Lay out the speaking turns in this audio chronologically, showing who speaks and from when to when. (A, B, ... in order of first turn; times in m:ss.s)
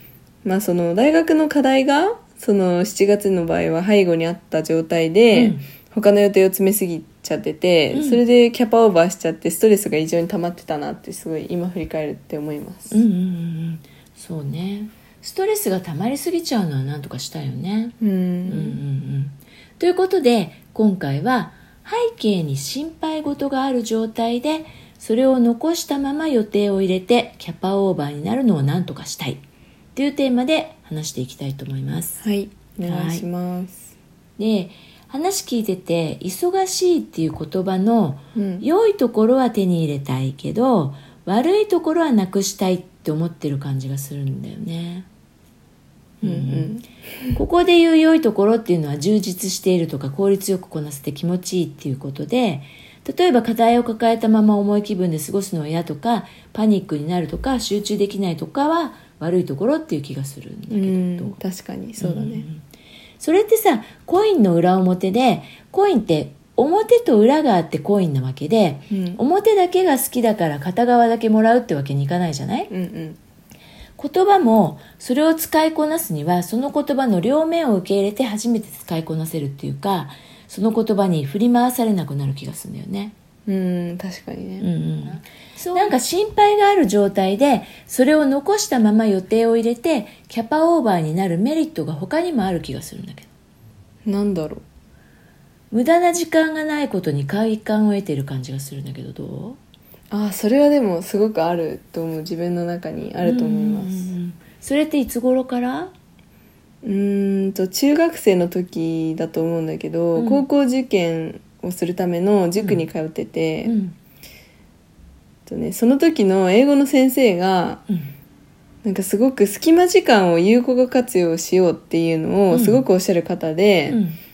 0:00.4-0:13.0 A
0:05.3-0:05.6 B
0:07.9-0:08.2 B
0:12.9-0:17.9 B
0:18.0-0:18.8 A
0:18.5-0:29.4 B
0:30.0-0:32.2 B
0:32.2-0:33.9 A
0:32.9-0:33.2 B
0:34.4-0:45.0 B
0:38.3-0:38.6 A
0:46.2-0:46.8 B
0:46.2-0:47.4 A
0:47.3-1:01.4 B
1:00.7-1:02.4 A
1:02.0-1:02.6 B
1:03.2-1:12.7 B
1:08.9-1:09.2 A
1:12.7-1:13.2 A
1:14.0-1:23.1 B
1:23.5-1:24.7 A
1:24.6-1:33.3 B
1:34.0-1:34.6 A
1:35.7-1:39.6 B
1:40.1-1:44.1 A
1:43.2-1:45.9 B
1:46.8-1:53.7 A
1:50.2-1:50.4 B
1:52.6-1:52.8 B
1:53.6-1:54.0 B
1:55.4-1:57.8 A
1:58.8-2:04.0 A
2:02.5-2:02.8 B
2:03.9-2:04.2 B